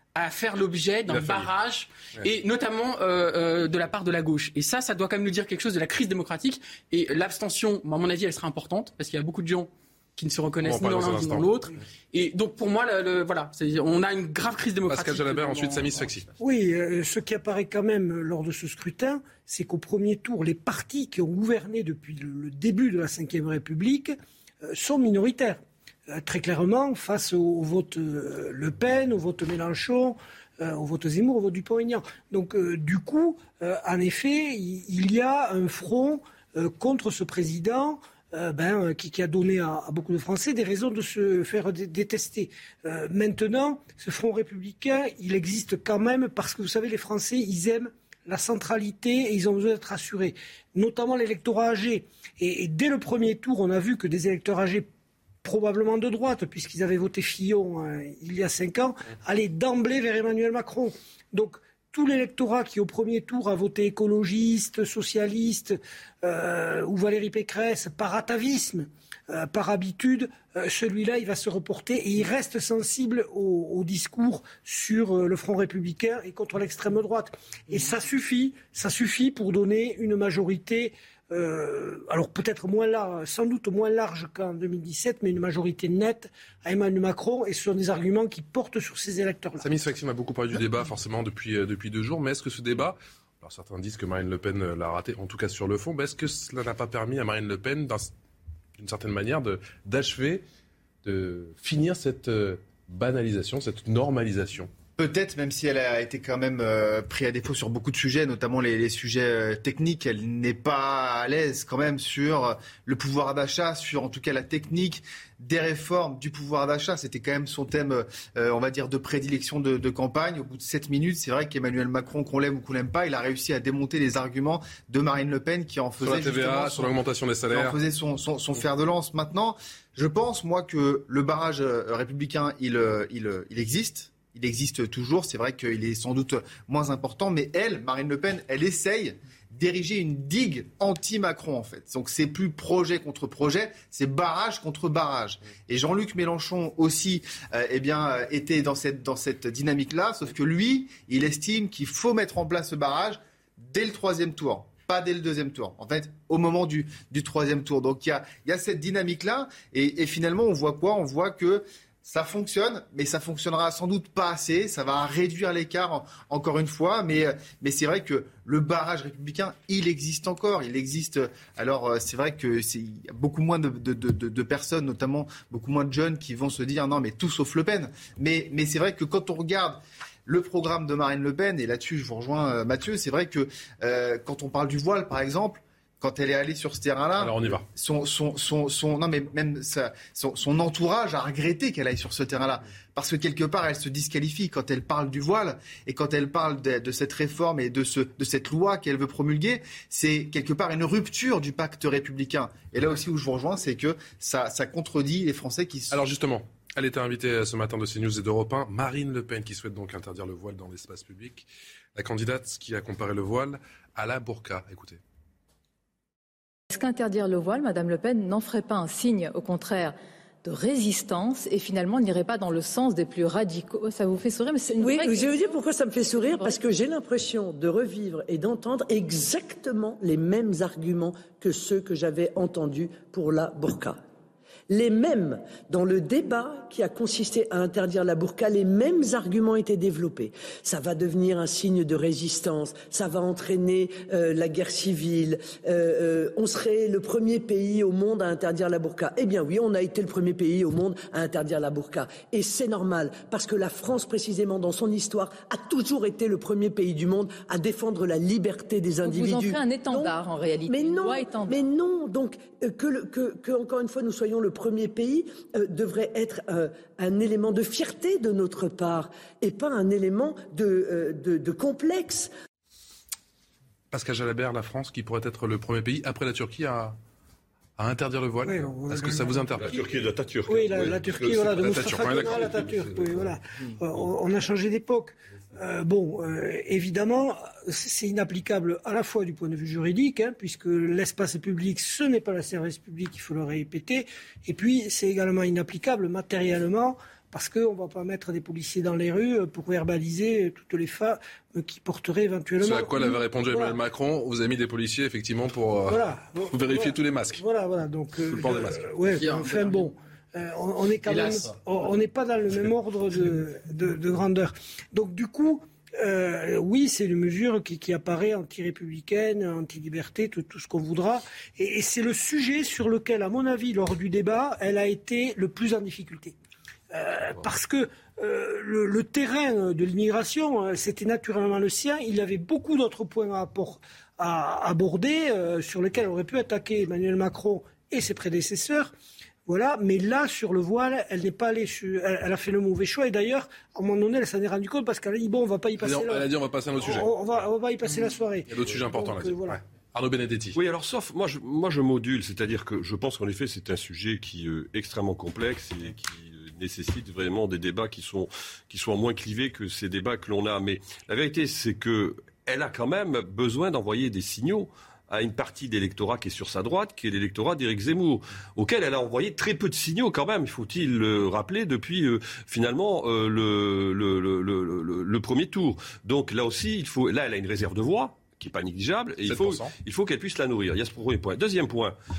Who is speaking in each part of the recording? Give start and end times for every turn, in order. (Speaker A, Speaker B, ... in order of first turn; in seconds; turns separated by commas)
Speaker A: 0.1-16.1, Speaker B: 1.1-1.5, Speaker B: 10.6-11.5, Speaker B: 14.9-16.3, Speaker C: 16.4-54.9, Speaker C: 55.4-89.7, Speaker B: 89.6-98.1, Speaker B: 98.8-100.4, Speaker B: 101.0-104.7, Speaker D: 105.0-127.0, Speaker B: 126.0-127.8, Speaker D: 127.5-206.0, Speaker B: 187.2-187.6, Speaker B: 205.9-215.0, Speaker E: 216.7-225.6, Speaker F: 224.8-234.0, Speaker E: 226.3-226.6, Speaker F: 234.7-260.1, Speaker E: 259.0-261.6, Speaker F: 260.7-272.3, Speaker B: 273.9-277.0, Speaker B: 277.8-279.8, Speaker C: 278.4-279.8, Speaker G: 279.6-282.6, Speaker C: 280.5-303.8, Speaker B: 281.5-283.4, Speaker B: 302.6-307.4, Speaker C: 305.9-326.3, Speaker B: 308.3-308.8, Speaker A: 309.2-309.9, Speaker A: 311.1-311.5, Speaker C: 326.9-338.9, Speaker C: 339.5-349.6, Speaker B: 345.8-347.1, Speaker B: 347.9-350.6, Speaker G: 350.6-381.9, Speaker B: 379.2-379.7